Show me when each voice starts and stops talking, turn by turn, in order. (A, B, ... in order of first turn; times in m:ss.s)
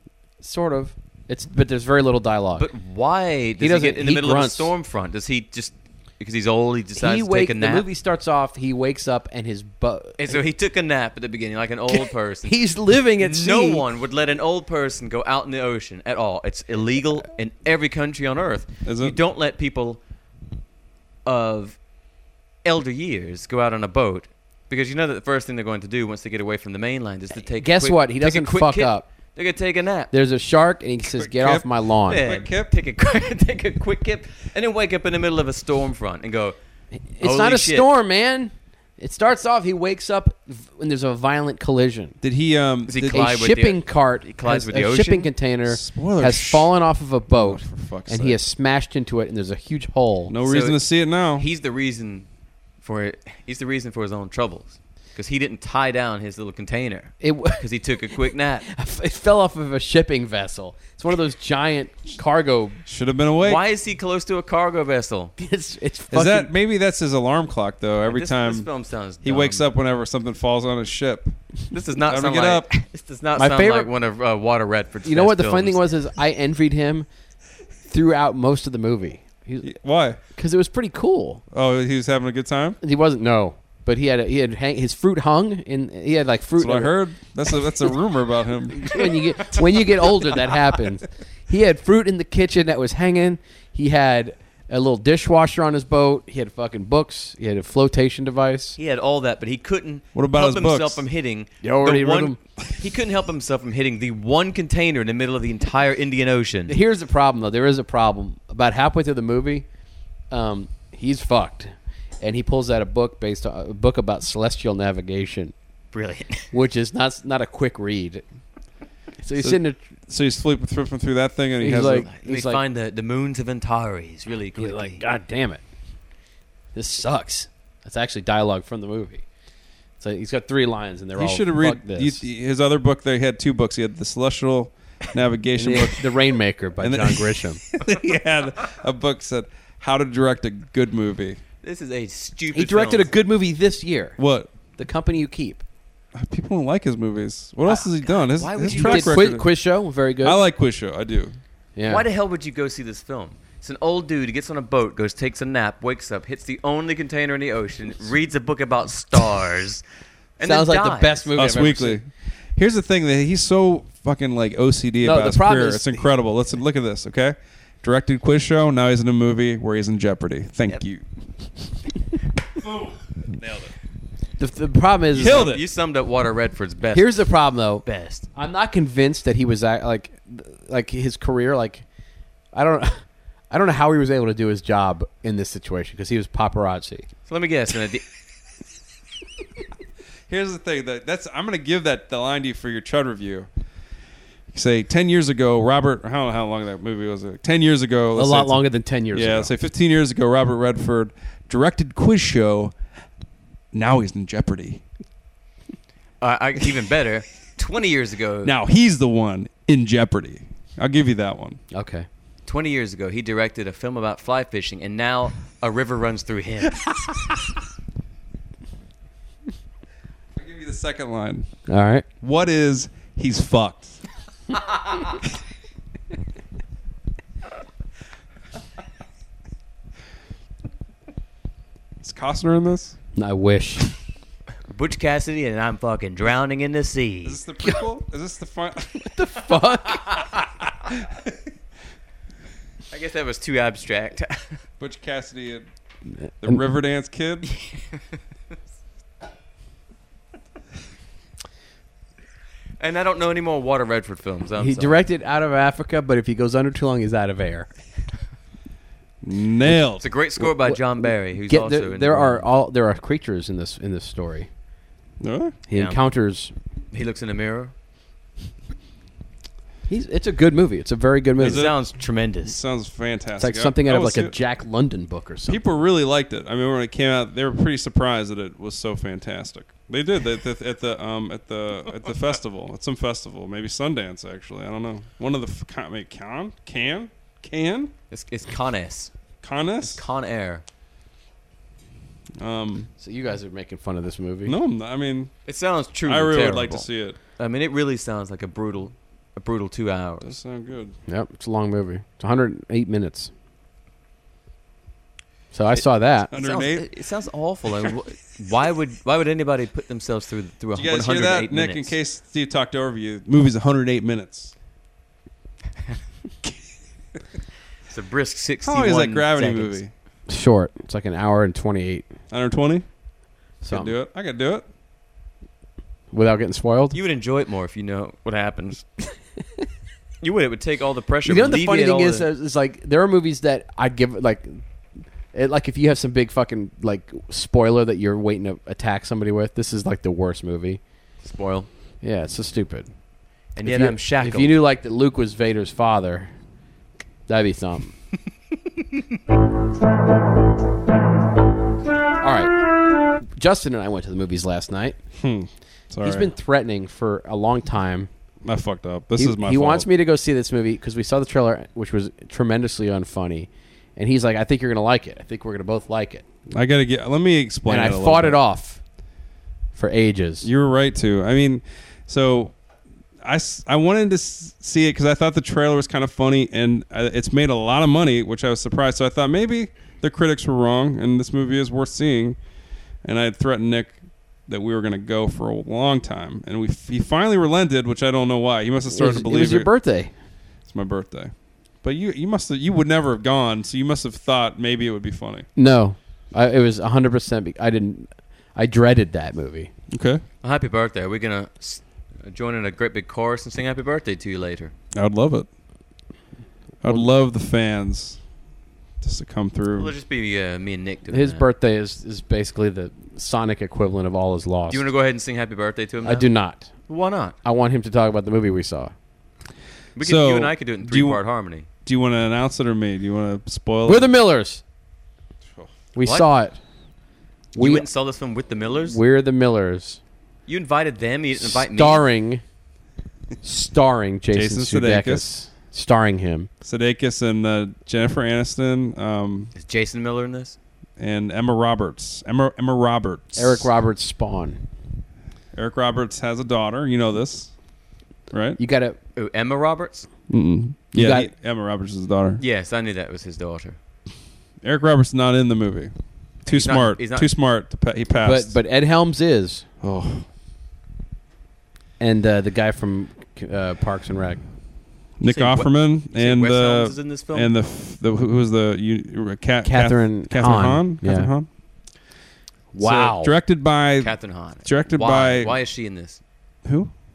0:00.4-0:02.7 A
0:02.6-0:07.8 B
0:03.6-0:04.7 A
0:07.0-0:10.4 A
0:10.2-0:12.6 B
0:11.9-0:13.8 A
0:13.2-0:20.0 B
0:18.8-0:19.2 C
0:21.2-0:21.8 B
0:22.6-0:30.1 B
0:27.6-0:29.1 A
0:30.1-0:32.4 A
0:31.1-0:32.6 C
0:32.1-0:36.6 B
0:37.0-0:42.2 A
0:37.2-0:37.9 B
0:42.2-0:43.2 C
0:42.9-0:45.3 B
0:43.1-0:50.3 A
0:45.7-0:46.7 C
0:47.3-0:48.4 C
0:50.3-0:51.5 C
0:50.4-0:50.8 B
0:51.3-0:52.3 B
0:52.8-0:58.6 B
0:57.2-0:57.6 A
0:58.6-1:02.8 A
1:02.8-1:03.6 C
1:03.4-1:05.3 B
1:05.4-1:06.5 A
1:06.1-1:08.7 C
1:08.0-1:09.6 B
1:09.2-1:11.4 C
1:11.7-1:15.9 B
1:12.1-1:12.7 C
1:13.4-1:13.9 A
1:15.0-1:17.1 A
1:17.9-1:19.7 A
1:19.6-1:20.2 C
1:20.3-1:21.4 A
1:21.5-1:22.8 C
1:22.8-1:26.9 A
1:26.6-1:29.0 C
1:28.7-1:38.8 A
1:38.8-1:46.7 B
1:40.1-1:41.0 C
1:41.6-1:42.4 A
1:46.7-1:49.6 A
1:50.3-1:55.5 A
1:55.9-1:56.5 B
1:56.5-1:58.2 A
1:59.2-1:59.8 A
1:59.4-2:02.1 C
2:01.6-2:02.6 A
2:01.8-2:05.0 B
2:04.6-2:05.6 A
2:06.7-2:09.2 A
2:10.0-2:12.2 A
2:11.2-2:16.1 C
2:15.6-2:17.6 A
2:16.8-2:21.4 C
2:21.6-2:23.1 B
2:22.5-2:24.2 A
2:24.2-2:24.5 C
2:24.7-2:25.6 A
2:26.1-2:29.5 C
2:27.6-2:29.3 B
2:28.7-2:30.4 A
2:30.2-2:31.4 C
2:31.8-2:32.0 A
2:31.9-2:39.8 B
2:40.4-2:41.3 B
2:40.4-2:42.0 A
2:41.3-2:51.0 C
2:45.0-2:46.0 A
2:52.6-2:53.7 C
2:54.4-2:55.5 A
2:55.1-2:55.6 C
2:55.2-2:57.3 B
2:56.9-3:01.8 A
2:57.8-2:58.3 B
3:02.5-3:07.1 A
3:07.3-3:08.0 B
3:10.3-3:13.5 C
3:14.5-3:18.6 C
3:18.1-3:19.5 A
3:19.1-3:22.7 C
3:23.7-3:24.8 C
3:26.2-3:28.5 B
3:28.4-3:31.6 C
3:31.7-3:32.1 A
3:32.4-3:37.1 B
3:40.4-3:41.5 C
3:41.7-3:42.0 A
3:42.2-3:44.0 C
3:52.0-3:53.0 C
3:53.1-3:53.9 A
3:54.7-3:57.4 B
3:57.2-3:59.1 C
3:59.0-4:00.5 A
4:01.0-4:01.4 C
4:02.9-4:04.6 B
4:04.8-4:05.7 C
4:06.2-4:06.6 A
4:06.4-4:07.5 C
4:07.6-4:08.0 B
4:12.8-4:15.0 B
4:14.6-4:17.7 A
4:19.2-4:20.1 C
4:20.0-4:22.4 B
4:21.5-4:24.5 A
4:25.2-4:25.6 C
4:25.7-4:26.5 A
4:25.7-4:26.0 B
4:26.9-4:27.7 B
4:29.9-4:31.7 A
4:31.4-4:31.8 C
4:31.4-4:32.6 B
4:32.4-4:34.4 C
4:33.4-4:35.6 A
4:35.5-4:47.9 C
4:48.1-4:49.1 B
4:49.4-4:50.0 C
4:49.8-4:50.6 B
4:52.4-4:52.9 C
4:53.0-4:54.5 A
4:54.4-4:55.3 C
4:55.5-5:00.3 B
4:56.0-4:57.2 C
5:00.2-5:00.9 C
5:01.1-5:03.3 A
5:05.5-5:06.3 A
5:06.3-5:06.9 C
5:06.3-5:11.9 B
5:10.7-5:14.5 C
5:17.9-5:19.8 B
5:18.6-5:19.9 C
5:20.3-5:22.1 A
5:22.3-5:22.8 C
5:23.6-5:23.9 A
5:23.7-5:24.6 C
5:26.1-5:27.0 A
5:26.9-5:28.8 B
5:30.2-5:32.2 B
5:31.2-5:34.6 A
5:35.3-5:40.8 A
5:41.2-5:41.7 B
5:42.0-5:42.9 A
5:43.5-5:44.6 B
5:43.6-5:46.3 A
5:47.3-5:47.9 A
5:52.2-5:52.5 A
5:53.2-5:55.0 A
5:55.2-5:56.3 C
5:56.0-5:58.1 A
5:58.4-5:59.8 C
5:59.2-6:06.2 A
6:06.5-6:08.4 C
6:07.6-6:08.8 A
6:09.7-6:10.5 A
6:10.4-6:12.5 C
6:13.2-6:22.4 C
6:23.0-6:24.0 C
6:24.5-6:29.7 C
6:28.9-6:30.1 A
6:30.6-6:35.4 C
6:35.6-6:39.7 A
6:39.9-6:40.2 C
6:40.4-6:44.7 B
6:44.9-6:45.5 C
6:46.8-6:48.2 C
6:49.0-6:49.9 C
6:49.7-6:51.4 B
6:51.1-6:54.9 A
6:54.7-6:56.3 B
6:56.0-6:56.7 A
6:56.9-6:57.4 B
6:57.4-6:58.9 A
7:00.0-7:01.7 B
7:00.0-7:01.2 C
7:01.8-7:04.1 C
7:03.8-7:04.6 A
7:05.9-7:06.6 A
7:06.0-7:06.3 B
7:07.5-7:07.8 A
7:07.6-7:09.0 B
7:08.8-7:10.0 A
7:10.5-7:12.0 B
7:11.4-7:12.4 A
7:13.4-7:16.5 A
7:14.3-7:15.2 C
7:16.6-7:19.5 C
7:19.5-7:20.6 B
7:21.0-7:23.7 C
7:23.4-7:24.6 A
7:25.5-7:27.5 C
7:28.3-7:28.6 C
7:28.6-7:29.0 A
7:29.1-7:30.1 B
7:30.3-7:32.4 C
7:30.9-7:31.3 A
7:32.4-7:33.8 B
7:34.6-7:35.9 C
7:36.4-7:37.3 B
7:36.4-7:38.6 C
7:38.2-7:39.6 A
7:39.8-7:40.3 C
7:42.0-7:44.4 A
7:45.2-7:51.5 C
7:45.2-7:47.5 B
7:49.6-7:51.3 A
7:52.7-7:53.3 A
7:52.8-7:55.6 C
7:54.0-7:56.2 B
7:56.6-7:56.9 C